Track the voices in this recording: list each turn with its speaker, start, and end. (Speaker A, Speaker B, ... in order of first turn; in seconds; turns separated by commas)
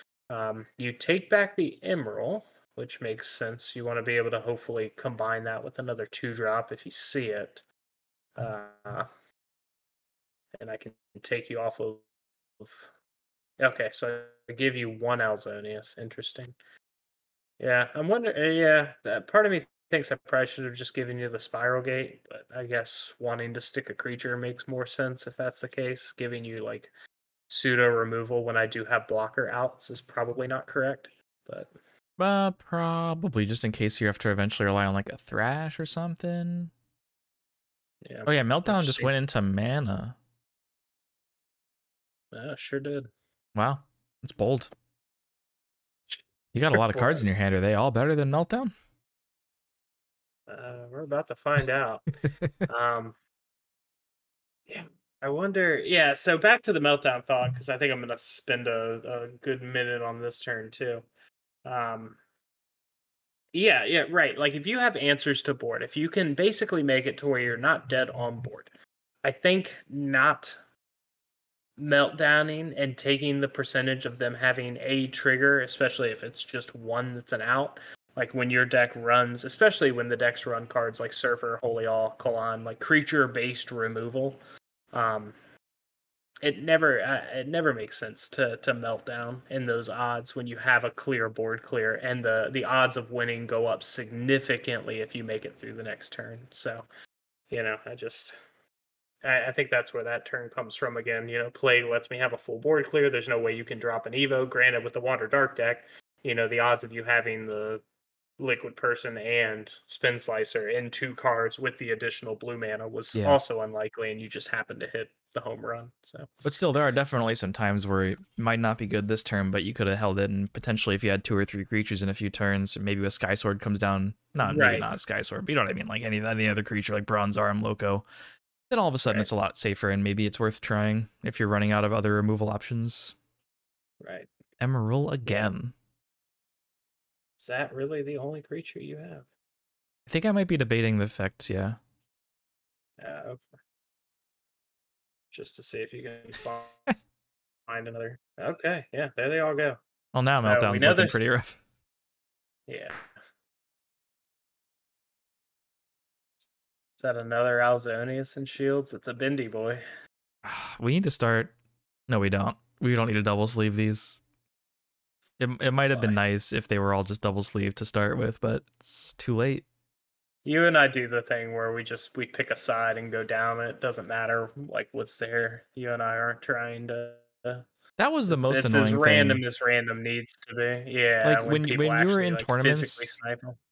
Speaker A: 0.3-7.6, Speaker A: 8.3-9.1, Speaker A: 10.6-12.1, Speaker A: 12.6-12.9, Speaker A: 13.6-16.6, Speaker A: 17.6-26.9, Speaker A: 27.5-31.7, Speaker B: 32.2-36.7, Speaker A: 38.0-39.1, Speaker B: 38.2-40.1, Speaker A: 42.3-43.1, Speaker B: 43.5-44.7, Speaker B: 46.5-48.7, Speaker A: 46.7-47.3, Speaker A: 50.5-53.2, Speaker A: 54.7-61.0, Speaker A: 61.6-62.2, Speaker A: 63.5-68.7, Speaker A: 69.2-70.6, Speaker A: 71.8-84.4, Speaker A: 84.9-85.3, Speaker A: 86.4-96.8, Speaker A: 97.5-98.3, Speaker A: 99.2-107.8, Speaker A: 108.4-116.3, Speaker B: 113.1-113.4, Speaker B: 116.4-128.1, Speaker A: 124.4-124.9, Speaker B: 128.7-133.2, Speaker A: 134.0-134.3, Speaker B: 134.6-135.7, Speaker A: 135.2-135.5, Speaker A: 137.4-139.2, Speaker B: 140.1-141.8, Speaker A: 143.0-143.4, Speaker A: 145.3-146.9, Speaker A: 147.7-149.8, Speaker B: 150.1-151.6, Speaker A: 150.4-151.2, Speaker A: 152.7-153.0, Speaker A: 157.0-159.8, Speaker B: 160.4-161.5, Speaker B: 162.1-164.2, Speaker B: 165.4-169.6, Speaker A: 165.9-166.2, Speaker A: 170.4-177.7, Speaker B: 178.0-179.4, Speaker A: 178.3-183.6, Speaker B: 181.2-183.2